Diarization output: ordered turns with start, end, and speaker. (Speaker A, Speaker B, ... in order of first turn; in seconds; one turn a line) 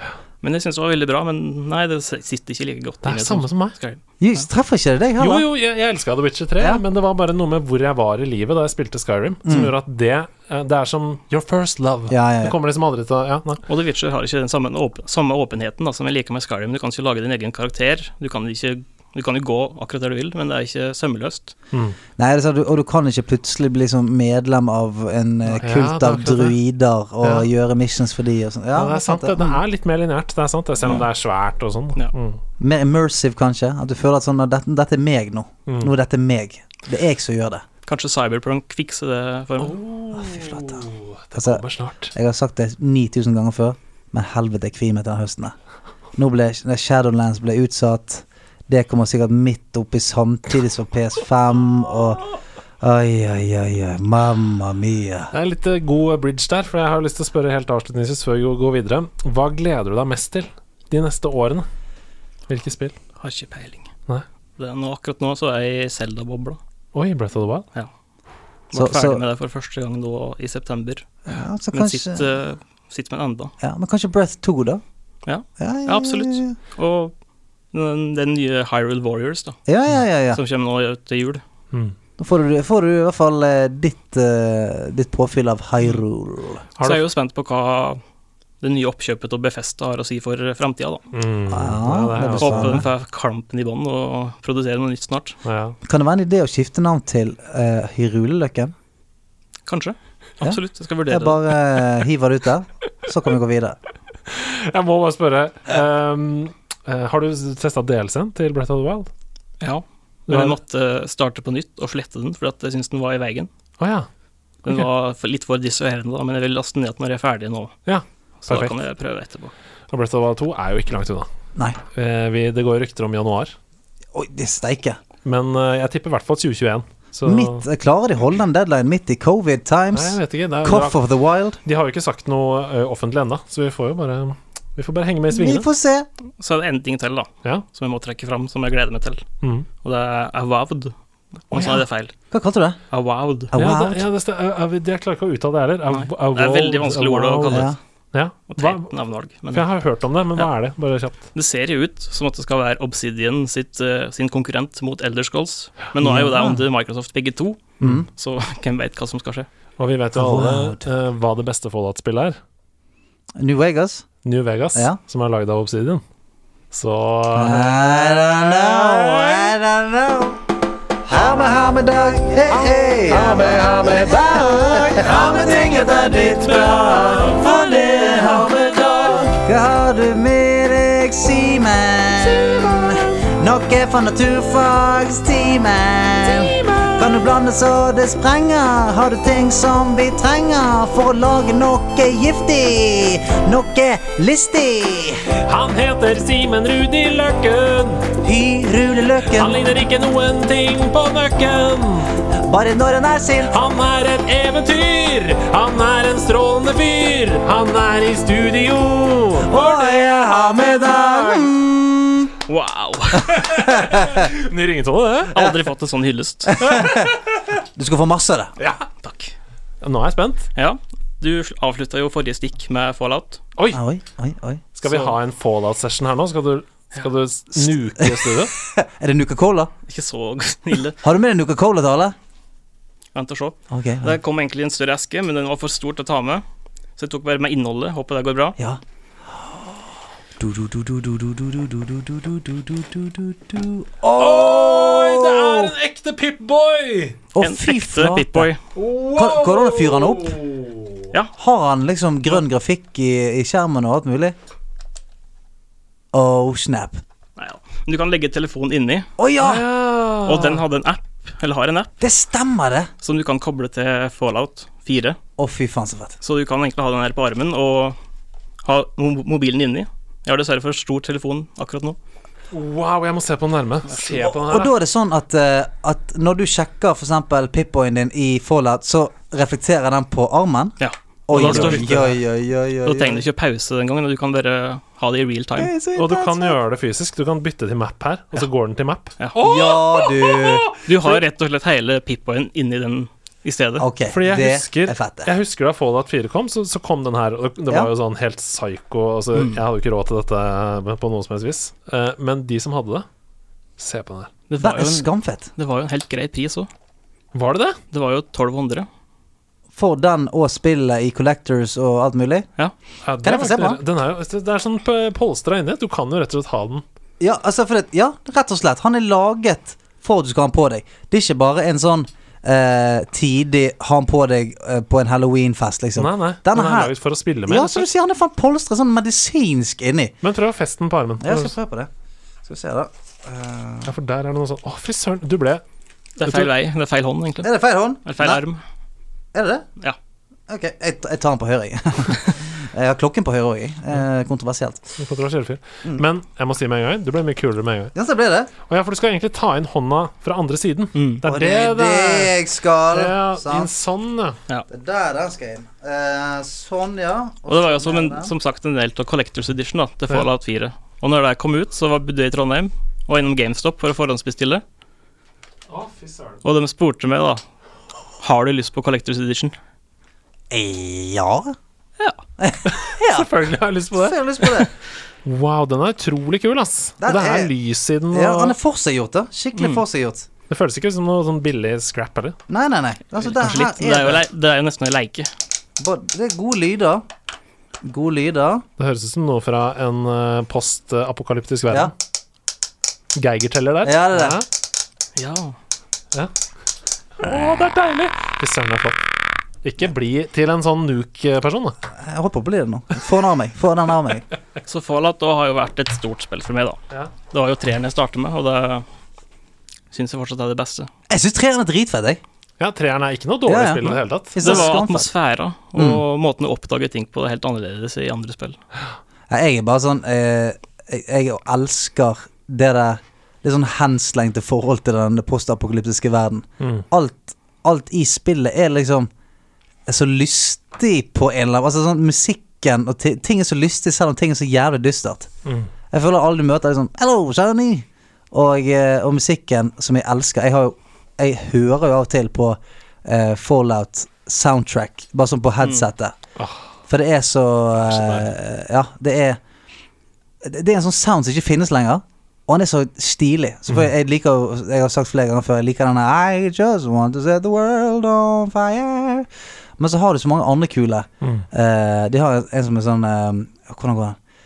Speaker A: 0.4-4.4
Speaker B: 3.0-3.7
Speaker C: 4.2-5.5
Speaker B: 5.2-13.6
Speaker C: 9.4-9.7
Speaker C: 12.1-12.6
Speaker A: 13.7-21.5
Speaker B: 21.7-22.0
Speaker C: 22.2-29.6
Speaker B: 25.6-26.6
Speaker B: 27.2-27.5
Speaker B: 28.7-32.4
Speaker C: 32.6-37.6
Speaker B: 35.7-35.9
Speaker A: 37.9-39.8
Speaker B: 39.6-42.1
Speaker C: 40.1-40.8
Speaker C: 41.3-45.5
Speaker C: 46.1-52.2
Speaker C: 52.8-55.3
Speaker B: 55.3-61.7
Speaker B: 62.5-62.9
Speaker A: 63.2-63.9
Speaker A: 64.6-66.6
Speaker B: 66.9-67.7
Speaker A: 68.7-71.1
Speaker C: 68.7-69.2
Speaker C: 71.2-72.2
Speaker A: 71.7-73.5
Speaker C: 73.6-74.8
Speaker A: 75.2-77.1
Speaker C: 75.6-76.5
Speaker A: 77.7-79.6
Speaker C: 79.7-80.4
Speaker A: 80.3-81.4
Speaker C: 82.2-86.6
Speaker A: 86.8-88.0
Speaker A: 88.6-91.0
Speaker B: 91.1-92.8
Speaker C: 91.5-92.8
Speaker A: 92.4-95.4
Speaker B: 95.4-95.8
Speaker C: 95.8-98.7
Speaker A: 99.7-101.4
Speaker C: 100.4-103.8
Speaker B: 104.3-109.1
Speaker A: 109.6-113.5
Speaker B: 110.3-110.6
Speaker B: 113.8-114.1
Speaker A: 114.6-117.7
Speaker B: 117.8-118.8
Speaker A: 118.4-119.5
Speaker B: 119.9-121.3
Speaker B: 121.9-123.5
Speaker C: 124.1-125.0
Speaker B: 125.2-127.6
Speaker C: 127.2-131.6
Speaker B: 129.9-131.0
Speaker B: 131.6-135.7
Speaker C: 135.3-136.1
Speaker A: 136.4-139.2
Speaker B: 139.4-139.7
Speaker A: 139.8-140.9
Speaker A: 141.5-142.1
Speaker B: 141.5-141.8
Speaker C: 142.3-142.8
Speaker A: 142.9-143.5
Speaker C: 143.5-144.1
Speaker B: 143.5-148.9
Speaker A: 145.9-147.7
Speaker C: 147.5-147.8
Speaker A: 148.5-149.6
Speaker B: 149.5-151.2
Speaker A: 151.3-159.5
Speaker C: 156.0-156.6
Speaker C: 157.8-158.1
Speaker B: 159.8-162.4
Speaker C: 160.1-160.8
Speaker C: 163.4-164.1
Speaker B: 164.2-166.0
Speaker B: 166.7-169.5
Speaker C: 167.3-170.4
Speaker C: 171.1-195.3
Speaker B: 173.1-174.2
Speaker B: 174.7-175.3
Speaker B: 176.1-179.3
Speaker B: 182.2-183.2
Speaker B: 186.2-187.2
Speaker B: 195.4-198.1
Speaker C: 198.2-199.7
Speaker B: 199.3-202.1
Speaker C: 202.3-203.6
Speaker B: 203.5-210.1
Speaker C: 209.4-212.3
Speaker B: 210.8-211.5
Speaker A: 212.5-213.4
Speaker B: 213.3-215.4
Speaker C: 213.4-214.3
Speaker A: 215.3-216.7
Speaker C: 216.5-217.1
Speaker B: 216.6-217.2
Speaker C: 217.8-218.5
Speaker B: 218.6-218.8
Speaker A: 219.0-219.3
Speaker B: 219.8-220.5
Speaker A: 220.5-223.4
Speaker C: 223.7-224.6
Speaker B: 224.8-228.5
Speaker A: 224.9-225.1
Speaker C: 227.6-229.7
Speaker A: 229.9-231.0
Speaker C: 231.0-232.2
Speaker A: 233.1-236.4
Speaker C: 233.7-234.2
Speaker A: 237.0-238.6
Speaker C: 239.3-239.7
Speaker C: 240.4-245.7
Speaker B: 244.2-247.2
Speaker C: 247.3-248.5
Speaker A: 247.4-248.6
Speaker B: 248.7-251.0
Speaker C: 249.1-250.4
Speaker C: 251.4-254.3
Speaker C: 256.1-257.0
Speaker A: 257.4-259.1
Speaker C: 259.2-259.6
Speaker B: 259.4-260.6
Speaker A: 260.2-261.9
Speaker C: 262.0-262.9
Speaker A: 263.0-265.2
Speaker C: 265.4-266.2
Speaker A: 266.2-268.0
Speaker A: 268.6-272.0
Speaker B: 272.5-274.7
Speaker C: 274.1-283.2
Speaker A: 280.8-281.9
Speaker B: 281.3-282.2
Speaker A: 282.8-285.7
Speaker C: 285.6-286.6
Speaker B: 285.9-290.8
Speaker C: 289.4-290.7
Speaker A: 290.9-293.9
Speaker C: 293.8-295.3
Speaker B: 294.1-303.1
Speaker A: 299.3-299.6
Speaker B: 303.8-304.3
Speaker A: 304.5-306.7
Speaker C: 304.6-305.5
Speaker B: 307.3-307.8
Speaker A: 307.9-308.9
Speaker C: 309.7-312.5
Speaker B: 313.0-316.8
Speaker C: 313.2-313.8
Speaker C: 317.2-326.9
Speaker B: 326.0-327.9
Speaker C: 327.4-330.1
Speaker B: 330.2-331.5
Speaker C: 331.2-331.9
Speaker C: 332.4-333.9
Speaker B: 333.9-335.6
Speaker A: 336.2-337.5
Speaker B: 336.2-336.5
Speaker C: 337.4-338.4
Speaker A: 338.0-338.6
Speaker C: 339.3-339.6
Speaker C: 340.5-344.8
Speaker B: 345.0-347.9
Speaker C: 347.9-348.5
Speaker B: 348.7-352.3
Speaker A: 350.9-351.2
Speaker C: 351.2-353.7
Speaker B: 352.9-354.4
Speaker C: 354.7-358.3
Speaker A: 357.5-364.6
Speaker B: 365.7-366.4
Speaker A: 366.4-367.4
Speaker A: 368.2-369.5
Speaker C: 370.5-371.5
Speaker C: 372.4-373.3
Speaker B: 372.6-374.7
Speaker C: 373.9-374.7
Speaker B: 375.2-378.6
Speaker C: 377.0-377.5
Speaker C: 378.1-380.3
Speaker A: 379.6-379.8
Speaker B: 380.5-382.4
Speaker C: 382.5-384.2
Speaker A: 383.2-385.3
Speaker C: 385.8-387.1
Speaker C: 387.8-388.6
Speaker B: 388.8-391.9
Speaker B: 393.1-394.4
Speaker C: 393.8-394.4
Speaker A: 395.1-395.6
Speaker B: 397.2-399.0
Speaker B: 399.6-401.8
Speaker C: 401.9-404.2
Speaker A: 404.6-406.8
Speaker A: 407.3-408.9
Speaker A: 409.9-410.9
Speaker C: 411.1-412.2
Speaker B: 412.6-414.8
Speaker C: 413.4-415.1
Speaker A: 414.4-418.6
Speaker C: 415.7-416.0
Speaker C: 419.3-429.1
Speaker C: 429.9-435.3
Speaker C: 435.9-446.1
Speaker C: 446.9-449.4
Speaker B: 447.8-448.3
Speaker C: 450.4-459.3
Speaker C: 459.8-464.2